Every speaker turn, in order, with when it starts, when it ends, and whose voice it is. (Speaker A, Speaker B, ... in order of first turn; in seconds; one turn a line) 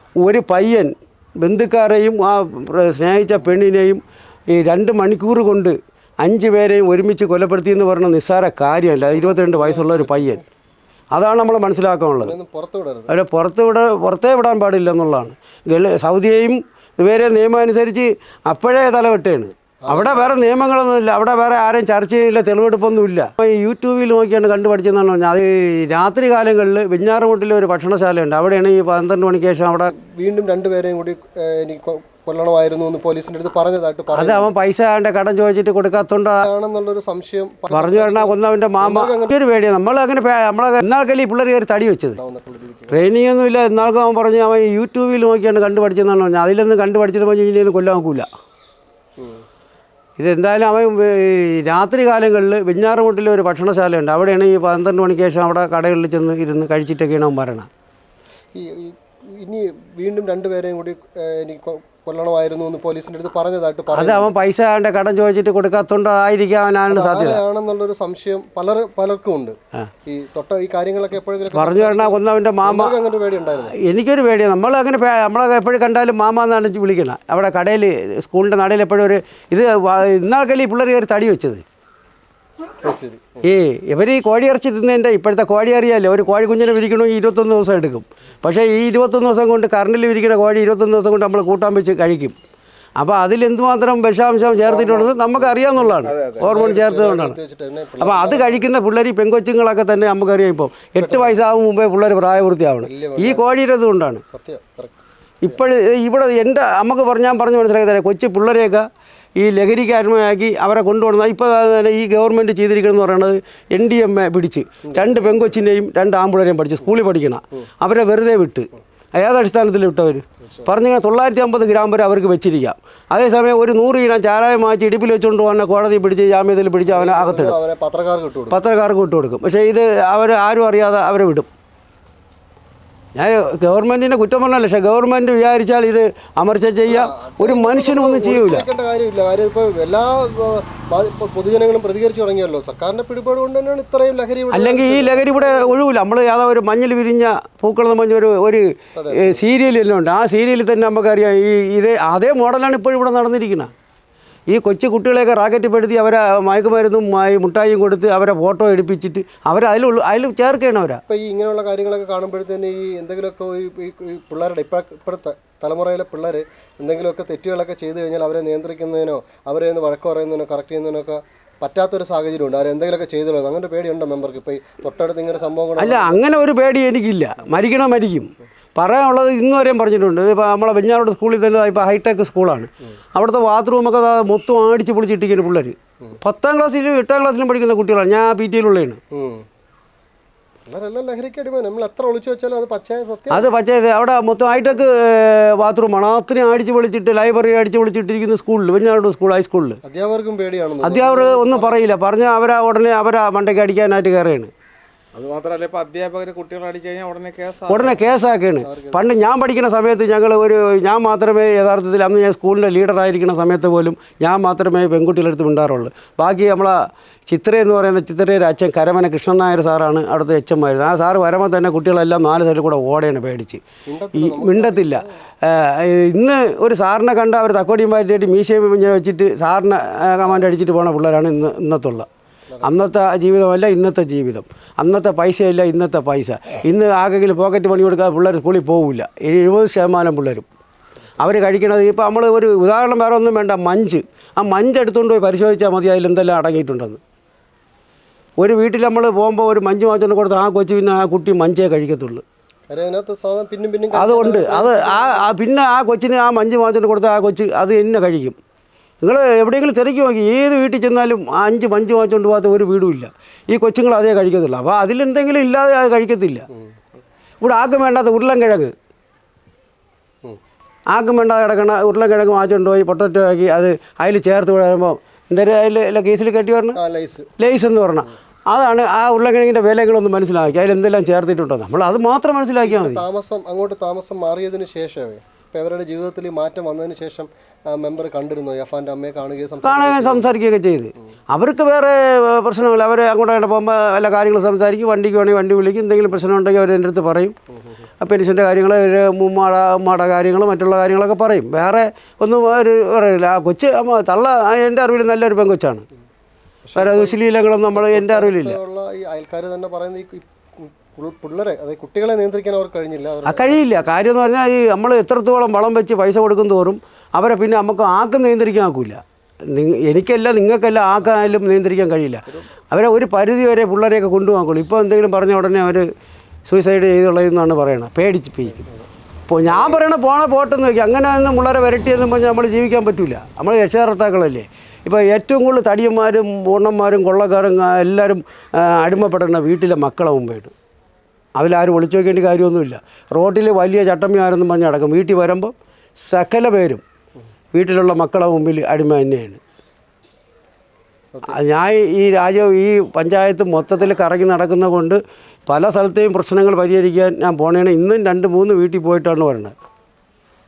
Speaker A: 0.2-10.4
Speaker B: 9.1-10.4
Speaker A: 11.1-12.3
Speaker B: 12.2-13.1
Speaker A: 13.1-29.9
Speaker B: 19.8-20.4
Speaker B: 29.9-34.5
Speaker A: 34.1-36.5
Speaker B: 36.4-39.3
Speaker A: 37.7-42.2
Speaker B: 42.2-43.0
Speaker A: 42.9-48.3
Speaker A: 50.2-57.7
Speaker B: 58.5-64.3
Speaker A: 63.9-67.4
Speaker B: 66.9-69.5
Speaker B: 70.0-73.7
Speaker A: 71.5-72.9
Speaker A: 73.7-81.6
Speaker B: 82.8-83.4
Speaker A: 83.4-92.3
Speaker A: 93.0-97.3
Speaker B: 94.5-98.6
Speaker C: 96.0-96.5
Speaker A: 98.0-104.2
Speaker B: 101.0-101.4
Speaker B: 102.8-103.5
Speaker B: 104.3-105.0
Speaker A: 105.4-108.8
Speaker A: 109.4-127.5
Speaker B: 114.8-115.4
Speaker B: 126.8-128.6
Speaker A: 128.5-131.5
Speaker A: 133.2-138.7
Speaker B: 136.8-145.8
Speaker A: 144.5-153.7
Speaker B: 148.9-149.5
Speaker A: 154.5-161.0
Speaker B: 161.1-176.2
Speaker A: 175.8-189.0
Speaker B: 189.1-189.4
Speaker B: 190.7-193.5
Speaker A: 193.3-199.8
Speaker B: 199.8-201.8
Speaker A: 200.8-204.5
Speaker C: 205.1-208.1
Speaker A: 207.7-216.8
Speaker B: 208.6-209.0
Speaker A: 217.3-232.1
Speaker B: 223.9-225.1
Speaker A: 232.6-240.4
Speaker A: 241.2-247.0
Speaker A: 248.4-252.2
Speaker B: 252.7-255.3
Speaker A: 253.9-258.4
Speaker A: 259.0-266.4
Speaker A: 267.4-268.7
Speaker A: 270.9-276.8
Speaker B: 276.8-277.3
Speaker A: 277.4-283.0
Speaker B: 282.6-290.3
Speaker A: 289.6-297.3
Speaker A: 298.0-305.8
Speaker B: 306.6-307.2
Speaker A: 306.8-308.6
Speaker B: 307.7-313.9
Speaker A: 313.2-325.9
Speaker A: 326.5-328.6
Speaker A: 329.3-340.5
Speaker B: 329.5-329.8
Speaker A: 341.4-346.8
Speaker A: 347.5-349.4
Speaker A: 351.3-359.5